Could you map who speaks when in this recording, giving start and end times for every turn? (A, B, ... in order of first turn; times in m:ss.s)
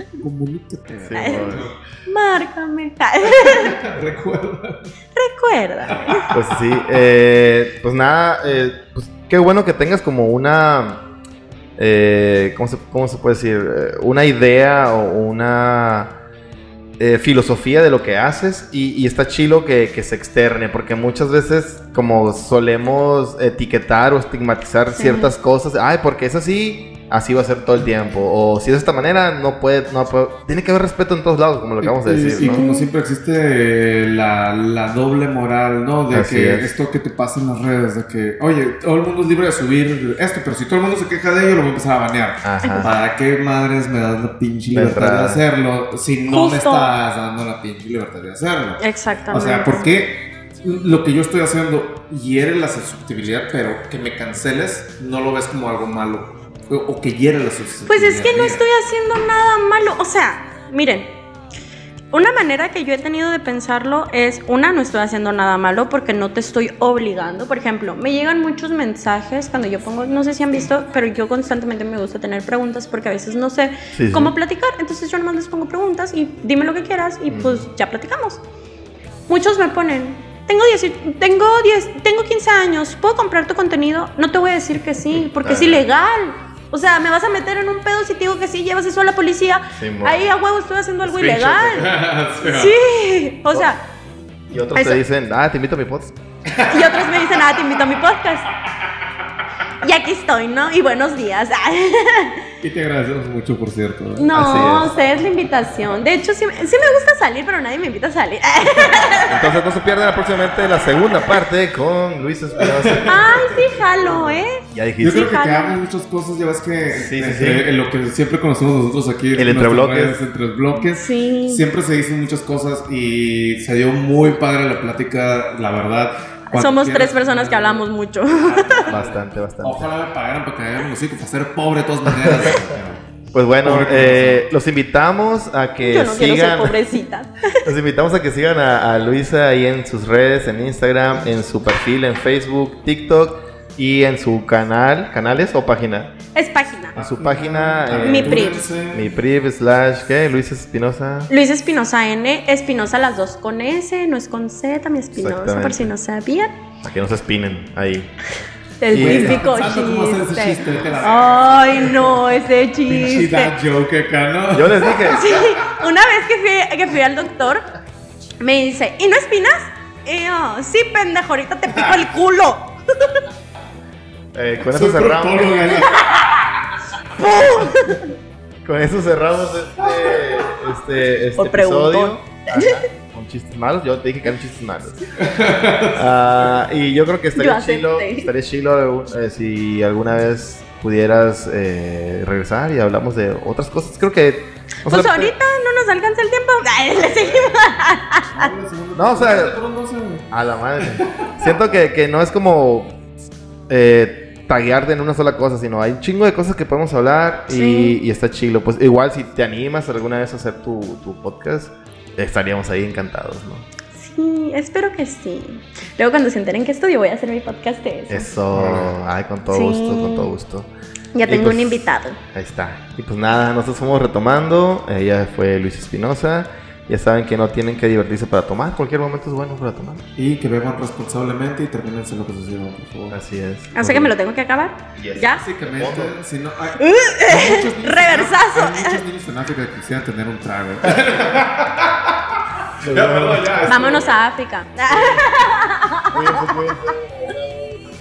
0:00.2-0:01.8 A
0:01.0-0:01.7 B
0:01.1-0:03.8 C
0:03.2-0:04.9 A
0:05.2-0:06.3 C
0:05.9-0:07.0 A
0:06.3-0:11.0 B
0:11.8-0:16.1 B
0:17.0-0:32.6 B
0:24.9-0:25.3 C
0:31.8-0:58.6 A
0:32.4-0:32.9 C
0:36.1-0:36.7 B
0:42.4-0:42.9 B
0:42.6-0:42.9 C
0:44.7-0:45.4 B
0:46.3-0:46.9 C
0:48.8-0:49.9 C
0:57.9-1:01.2 C
1:02.1-1:18.4 C
1:14.0-1:14.3 B
1:17.3-1:17.6 B
1:19.3-1:33.8 C
1:25.4-1:25.8 B
1:29.8-1:30.3 B
1:31.0-1:31.9 B
1:31.8-1:32.8 A
1:34.5-1:36.1 B
1:34.8-1:35.0 C
1:36.5-1:37.6 A
1:36.7-1:38.5 C
1:39.8-1:42.4 C
1:42.6-1:44.3 A
1:44.2-1:49.5 C
1:44.3-1:44.9 B
1:49.3-1:53.6 B
1:52.6-1:53.6 A
1:53.0-1:55.8 C
1:54.6-1:55.3 B
1:55.0-2:13.1 A
1:57.0-1:57.7 B
1:59.4-2:00.2 B
2:00.9-2:01.6 C
2:06.5-2:08.9 C
2:08.9-2:09.9 B
2:12.1-2:12.6 B
2:13.3-2:16.8 B
2:13.6-2:14.4 A
2:15.8-2:17.7 C
2:17.6-2:26.1 B
2:26.4-2:27.0 C
2:27.0-2:31.3 B
2:27.0-2:29.1 A
2:28.0-2:28.7 C
2:31.3-2:36.6 C
2:35.2-2:35.9 B
2:36.8-2:38.1 B
2:38.8-2:43.5 C
2:38.9-2:45.7 A
2:38.9-2:39.4 B
2:44.5-2:45.2 B
2:45.1-2:47.6 C
2:48.4-2:53.2 C
2:54.3-2:55.9 B
2:54.7-2:56.1 A
2:55.9-2:56.3 C
2:57.2-2:58.1 C
2:58.6-3:05.0 B
2:59.8-3:00.5 A
3:01.4-3:02.8 C
3:05.2-3:06.2 A
3:05.9-3:15.3 B
3:07.4-3:08.3 C
3:14.8-3:18.5 C
3:18.3-3:21.5 A
3:19.0-3:19.6 B
3:20.3-3:23.0 B
3:23.7-3:33.7 B
3:27.5-3:28.0 C
3:34.0-3:38.3 C
3:38.1-3:40.7 B
3:38.5-3:38.9 A
3:39.5-3:40.3 C
3:41.2-3:42.2 C
3:41.3-3:50.0 B
3:50.2-3:53.2 A
3:53.1-3:54.1 B
3:53.7-3:55.4 C
3:55.0-3:56.2 B
3:55.2-4:04.1 A
3:56.7-3:59.0 C
4:02.8-4:03.7 B
4:03.7-4:07.3 C
4:06.1-4:07.8 B